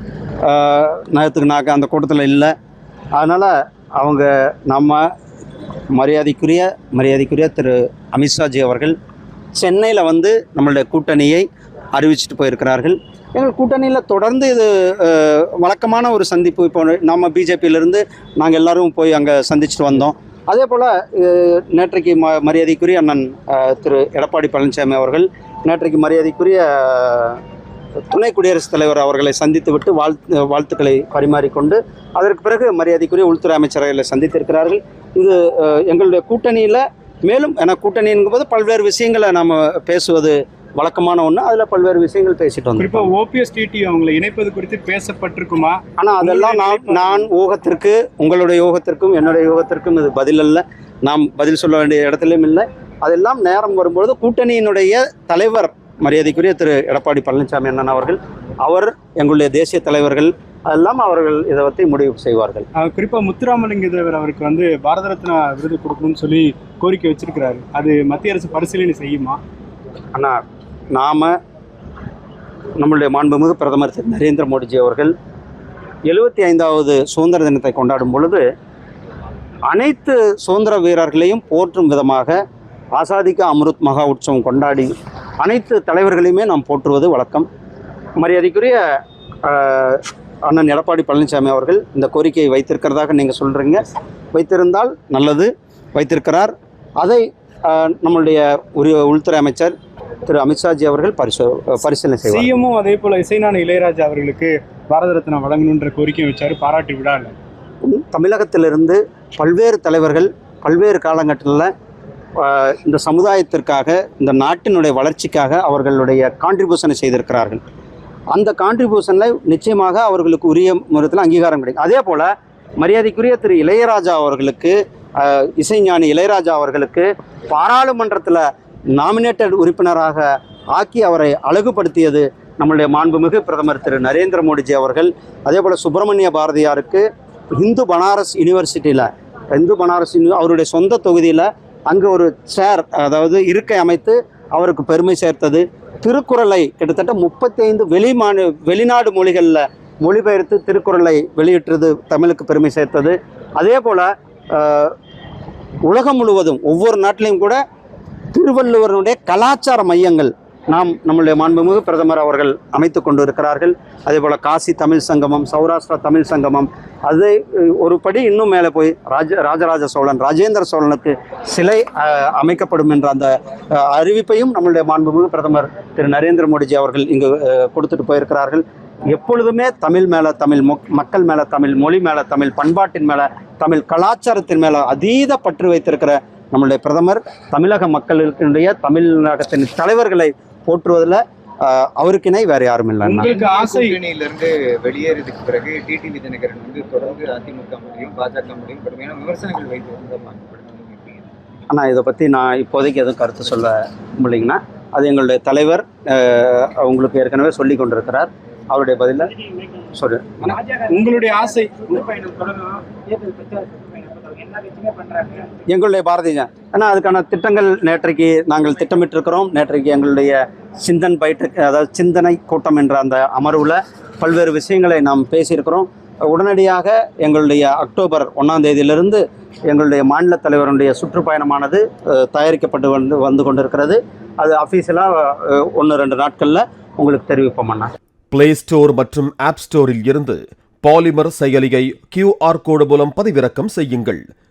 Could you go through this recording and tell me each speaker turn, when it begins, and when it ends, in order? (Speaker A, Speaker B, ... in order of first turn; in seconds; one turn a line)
Speaker A: 0.4-2.5
Speaker A: 3.2-5.1
Speaker A: 5.9-8.9
Speaker A: 9.6-27.4
Speaker A: 28.1-43.1
Speaker B: 42.8-47.2
Speaker A: 46.0-62.7
Speaker B: 62.8-69.4
Speaker A: 70.1-70.4
Speaker A: 70.9-71.3
Speaker A: 72.8-75.1
Speaker A: 76.1-78.5
Speaker A: 79.7-82.4
Speaker A: 82.9-87.5
Speaker A: 88.2-88.8
Speaker A: 89.4-99.7
Speaker A: 100.2-102.5
Speaker B: 102.3-107.3
Speaker A: 107.8-111.7
Speaker A: 112.4-117.6
Speaker A: 118.3-154.9
Speaker A: 155.8-157.6
Speaker A: 158.3-193.3
Speaker B: 193.0-194.0
Speaker C: 193.2-201.2
Speaker A: 201.7-209.3
Speaker A: 209.9-210.4
Speaker B: 210.4-215.6
Speaker A: 215.7-237.9
Speaker D: 238.3-244.2